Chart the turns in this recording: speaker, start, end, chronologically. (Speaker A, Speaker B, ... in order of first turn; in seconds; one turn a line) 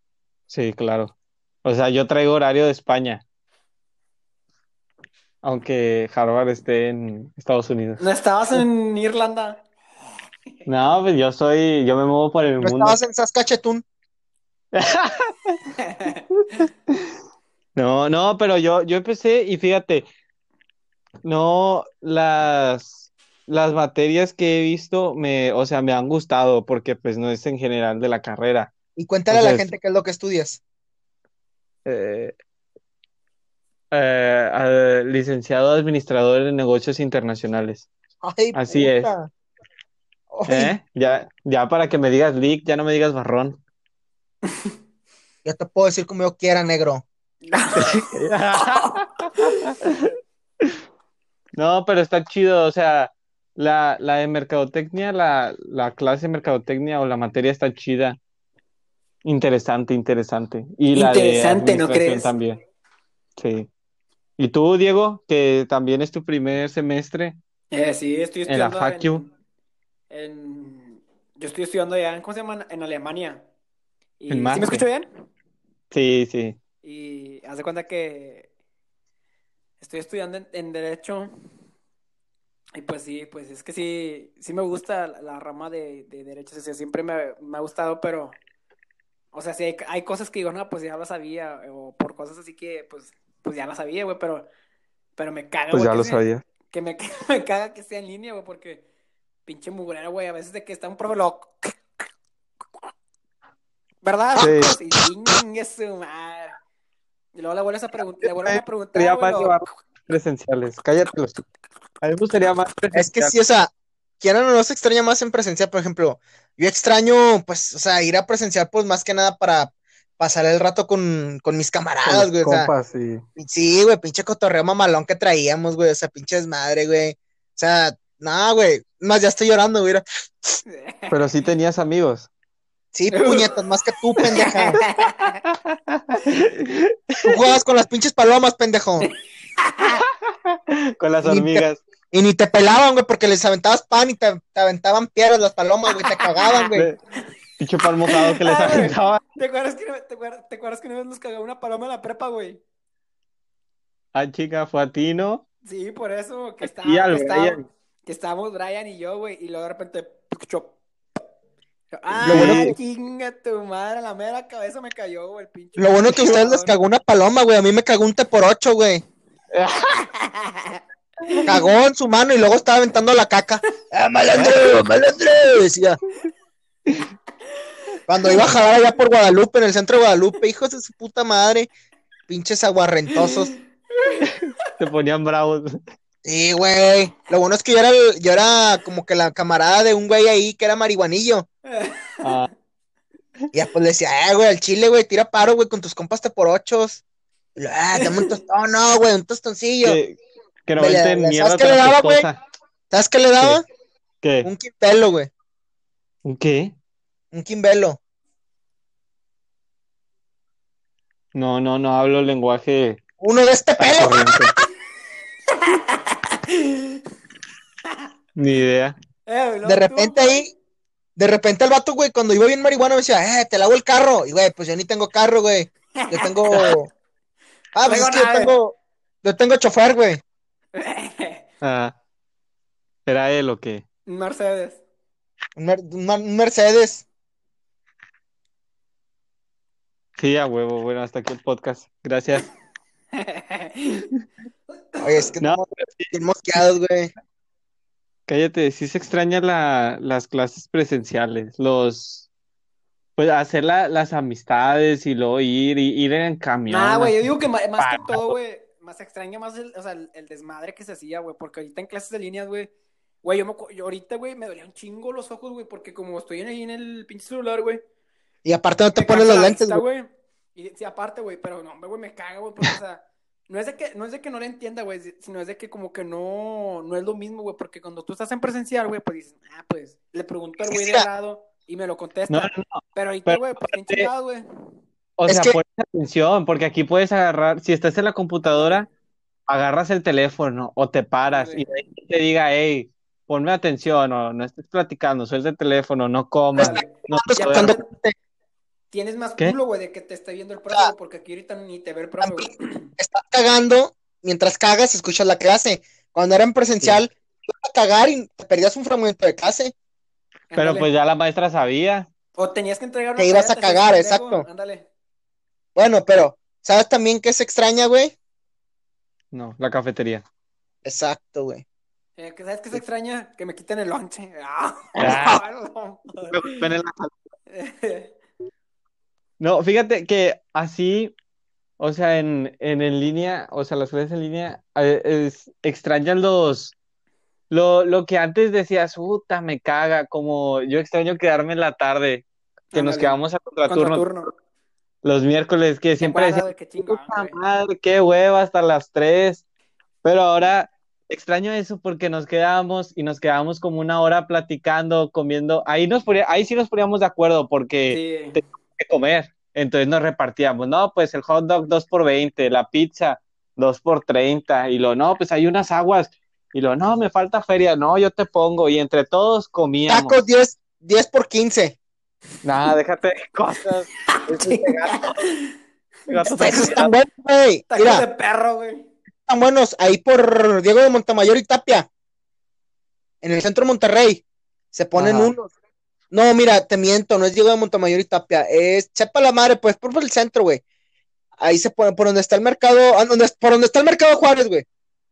Speaker A: 0.5-1.1
Speaker A: 1.6-3.2
Speaker A: 5.4-8.0
Speaker B: 8.0-9.6
Speaker A: 10.7-13.0
Speaker C: 12.6-13.8
Speaker A: 14.7-15.6
Speaker B: 15.8-16.2
Speaker A: 17.8-20.1
Speaker A: 21.2-28.7
Speaker C: 28.9-30.6
Speaker A: 29.3-29.7
Speaker A: 31.9-32.3
Speaker A: 33.9-37.9
Speaker C: 38.2-39.3
Speaker A: 38.5-39.1
Speaker C: 40.3-40.8
Speaker A: 40.5-43.6
Speaker C: 45.4-47.0
Speaker B: 47.5-48.0
Speaker A: 47.8-50.1
Speaker A: 51.5-58.2
Speaker A: 59.2-62.6
Speaker B: 60.9-62.3
Speaker A: 63.4-63.7
Speaker A: 64.4-67.4
Speaker B: 67.7-69.3
Speaker A: 68.4-69.2
Speaker B: 70.1-73.4
Speaker B: 74.2-75.1
Speaker A: 74.3-74.8
Speaker A: 75.9-76.6
Speaker B: 76.8-78.5
Speaker B: 79.8-81.3
Speaker B: 82.8-88.3
Speaker B: 89.3-94.5
Speaker B: 95.2-98.8
Speaker A: 95.7-96.4
Speaker B: 99.5-101.7
Speaker B: 104.0-106.6
Speaker A: 104.4-104.8
Speaker B: 107.3-109.6
Speaker A: 108.2-111.3
Speaker A: 112.0-113.3
Speaker C: 112.9-122.7
Speaker A: 122.0-123.2
Speaker C: 123.4-130.6
Speaker B: 130.7-131.2
Speaker A: 131.1-132.3
Speaker C: 132.9-134.8
Speaker B: 133.1-133.5
Speaker B: 134.3-135.3
Speaker A: 135.5-137.2
Speaker C: 137.2-139.1
Speaker B: 139.6-140.0
Speaker A: 140.3-141.8
Speaker C: 141.2-146.9
Speaker B: 146.1-146.6
Speaker A: 147.6-149.2
Speaker B: 148.1-152.6
Speaker A: 154.1-155.4
Speaker B: 155.6-160.8
Speaker A: 156.6-157.7
Speaker B: 161.9-166.7
Speaker A: 162.1-162.8
Speaker C: 162.2-162.8
Speaker C: 165.8-169.0
Speaker A: 166.1-166.4
Speaker A: 169.5-170.0
Speaker B: 170.1-171.5
Speaker C: 171.4-176.0
Speaker A: 174.3-174.6
Speaker C: 178.1-181.7
Speaker C: 182.3-183.5
Speaker B: 183.9-184.3
Speaker A: 184.2-185.8
Speaker C: 186.2-191.4
Speaker B: 191.7-192.4
Speaker A: 192.2-192.5
Speaker C: 193.5-197.0
Speaker C: 197.6-200.0
Speaker B: 197.9-198.2
Speaker A: 199.8-202.4
Speaker C: 200.8-202.3
Speaker C: 202.9-203.7
Speaker A: 204.2-204.5
Speaker C: 204.4-205.3
Speaker A: 206.2-206.7
Speaker C: 207.3-208.0
Speaker A: 211.3-213.0
Speaker C: 213.2-214.2
Speaker A: 213.8-214.5
Speaker B: 215.6-217.0
Speaker A: 218.4-218.9
Speaker B: 219.3-220.4
Speaker C: 219.6-220.5
Speaker C: 221.2-226.9
Speaker B: 226.0-226.7
Speaker C: 227.7-230.2
Speaker B: 227.8-228.6
Speaker B: 230.7-231.4
Speaker A: 231.6-231.9
Speaker A: 233.1-233.8
Speaker B: 234.1-234.8
Speaker C: 235.6-237.0
Speaker A: 240.2-242.5
Speaker B: 243.2-244.1
Speaker B: 244.7-245.2
Speaker C: 245.0-247.1
Speaker A: 245.4-246.1
Speaker A: 248.3-252.3
Speaker A: 253.2-258.3
Speaker B: 256.7-262.7
Speaker B: 263.2-267.8
Speaker C: 268.4-269.8
Speaker B: 268.9-284.4
Speaker C: 280.7-281.1
Speaker A: 282.3-284.1
Speaker A: 285.2-288.9
Speaker C: 285.3-285.6
Speaker B: 288.5-288.8
Speaker A: 289.5-297.8
Speaker B: 291.3-291.6
Speaker C: 296.5-298.1
Speaker B: 296.6-297.8
Speaker B: 298.9-302.9
Speaker C: 302.2-309.7
Speaker B: 310.5-310.9
Speaker A: 310.6-312.1
Speaker B: 312.4-314.9
Speaker C: 313.2-314.4
Speaker C: 315.8-318.1
Speaker A: 319.3-320.2
Speaker C: 320.8-321.6
Speaker B: 322.2-326.6
Speaker A: 325.0-325.4
Speaker A: 326.3-327.1
Speaker B: 327.5-328.1
Speaker A: 329.4-331.1
Speaker A: 331.8-336.7
Speaker A: 337.5-344.2
Speaker B: 342.7-344.3
Speaker A: 345.0-349.4
Speaker B: 346.0-347.4
Speaker A: 350.0-370.2
Speaker B: 357.9-358.4
Speaker C: 369.9-371.8
Speaker A: 372.4-375.1
Speaker B: 374.1-375.5
Speaker A: 376.1-376.9
Speaker B: 376.1-376.7
Speaker C: 376.3-378.1
Speaker B: 377.7-378.9
Speaker C: 379.3-381.9
Speaker C: 383.2-385.5
Speaker A: 384.9-385.3
Speaker C: 386.1-390.6
Speaker C: 391.4-394.6